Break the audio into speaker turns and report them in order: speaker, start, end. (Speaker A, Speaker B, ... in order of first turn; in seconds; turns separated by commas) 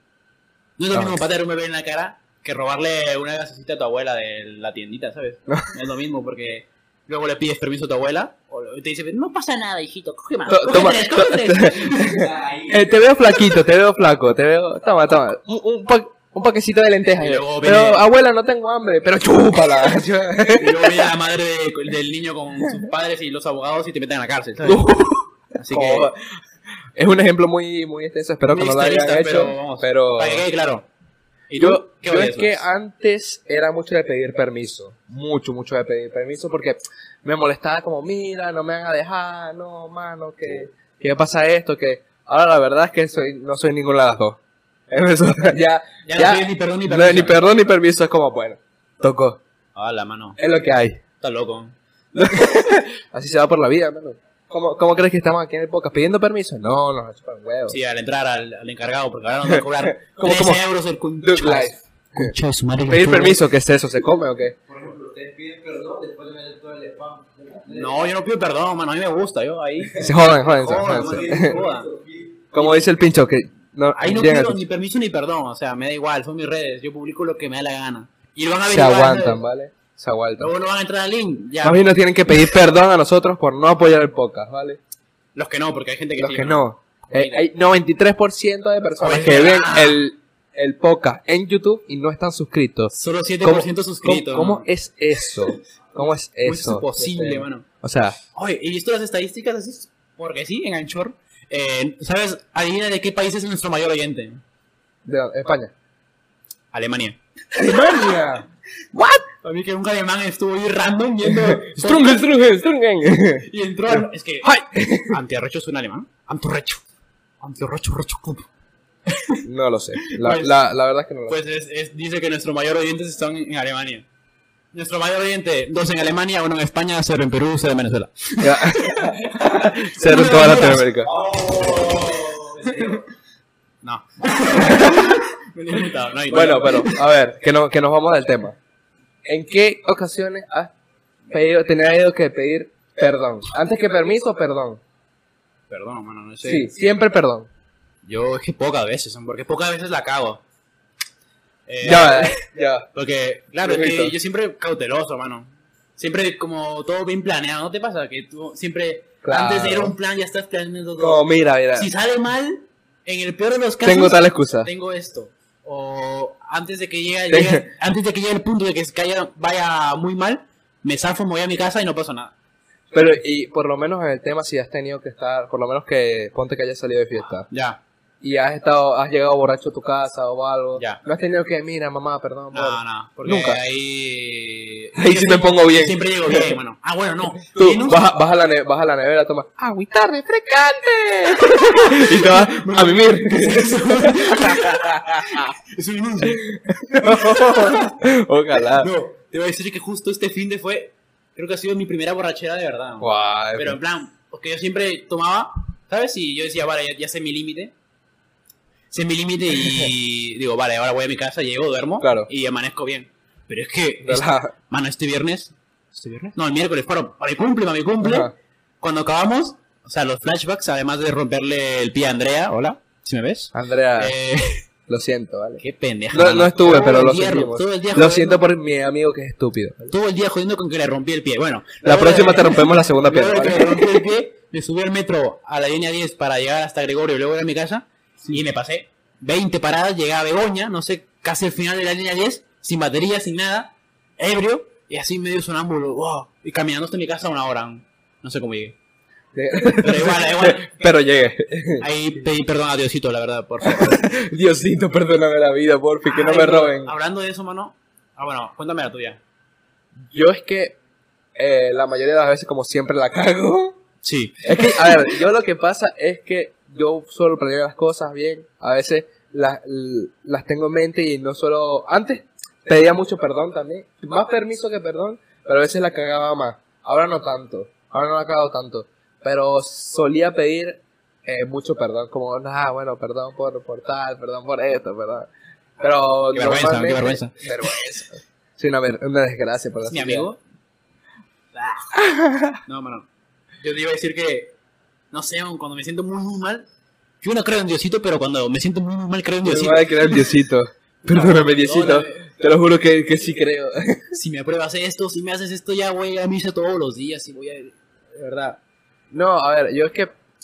Speaker A: 0.8-12.3, Speaker B: 10.5-21.1, Speaker C: 12.2-12.7, Speaker A: 17.2-18.0, Speaker A: 20.6-24.9, Speaker B: 24.6-26.2, Speaker A: 25.6-26.1, Speaker B: 27.0-30.4, Speaker A: 28.5-30.9, Speaker A: 31.5-32.7, Speaker B: 31.6-44.4, Speaker B: 44.9-49.4, Speaker A: 46.1-47.4, Speaker A: 49.8-50.4, Speaker B: 50.4-51.0, Speaker A: 51.2-51.8, Speaker B: 52.1-57.8, Speaker A: 57.7-63.4, Speaker B: 59.5-60.6, Speaker B: 61.2-62.3, Speaker B: 62.9-64.6, Speaker C: 64.7-67.9, Speaker A: 67.7-71.9, Speaker B: 70.0-71.5, Speaker C: 71.1-72.1, Speaker B: 72.5-74.6, Speaker A: 72.6-72.8, Speaker A: 74.0-79.4, Speaker B: 78.7-80.5, Speaker A: 80.4-81.8, Speaker B: 81.6-84.8, Speaker A: 85.3-87.4, Speaker B: 86.2-98.2, Speaker A: 89.0-90.0, Speaker A: 92.9-94.7, Speaker A: 96.5-97.7, Speaker A: 98.3-104.4, Speaker B: 105.0-105.7, Speaker A: 106.7-108.2, Speaker B: 107.5-109.2, Speaker A: 109.3-112.2, Speaker B: 111.3-115.2, Speaker A: 113.4-116.8, Speaker A: 117.4-118.5, Speaker A: 119.1-119.4, Speaker B: 119.4-121.4, Speaker A: 120.0-120.6, Speaker A: 121.3-124.1, Speaker A: 124.7-133.0, Speaker B: 128.4-131.1, Speaker C: 131.3-132.9, Speaker A: 133.8-137.0, Speaker B: 134.6-135.1, Speaker B: 136.3-138.6, Speaker B: 139.2-140.7, Speaker B: 141.3-144.8, Speaker A: 145.7-146.7, Speaker B: 146.4-147.5, Speaker A: 148.0-150.4, Speaker A: 151.7-152.4, Speaker B: 151.8-152.9, Speaker A: 152.9-172.3, Speaker B: 153.6-154.1, Speaker B: 159.2-159.9, Speaker B: 161.0-161.9, Speaker B: 163.8-164.7, Speaker B: 167.3-167.7, Speaker B: 172.9-177.5, Speaker A: 177.5-177.8, Speaker B: 178.2-183.6, Speaker A: 182.5-188.1, Speaker B: 185.0-186.5, Speaker B: 187.4-195.5, Speaker A: 191.8-197.9, Speaker B: 196.2-198.9, Speaker A: 198.5-207.7, Speaker B: 203.0-203.8, Speaker A: 208.9-224.6, Speaker B: 212.0-212.3, Speaker B: 214.1-214.5, Speaker B: 218.0-218.3, Speaker B: 223.5-224.1, Speaker B: 224.9-229.9, Speaker A: 225.6-228.4, Speaker A: 229.9-248.8, Speaker B: 231.8-234.0, Speaker B: 249.3-251.9, Speaker A: 249.8-250.7, Speaker A: 251.8-254.0, Speaker B: 253.6-256.9, Speaker A: 256.1-259.2, Speaker B: 260.1-260.8, Speaker B: 261.4-263.8, Speaker A: 264.0-265.1, Speaker B: 264.4-290.3, Speaker A: 286.3-287.4, Speaker A: 289.9-290.4, Speaker A: 291.5-291.9, Speaker B: 291.9-292.6, Speaker A: 292.7-293.1, Speaker A: 293.6-294.6, Speaker A: 295.1-296.7, Speaker A: 297.2-300.3, Speaker B: 299.4-304.0, Speaker A: 301.1-302.3, Speaker A: 304.1-308.6, Speaker B: 309.1-310.1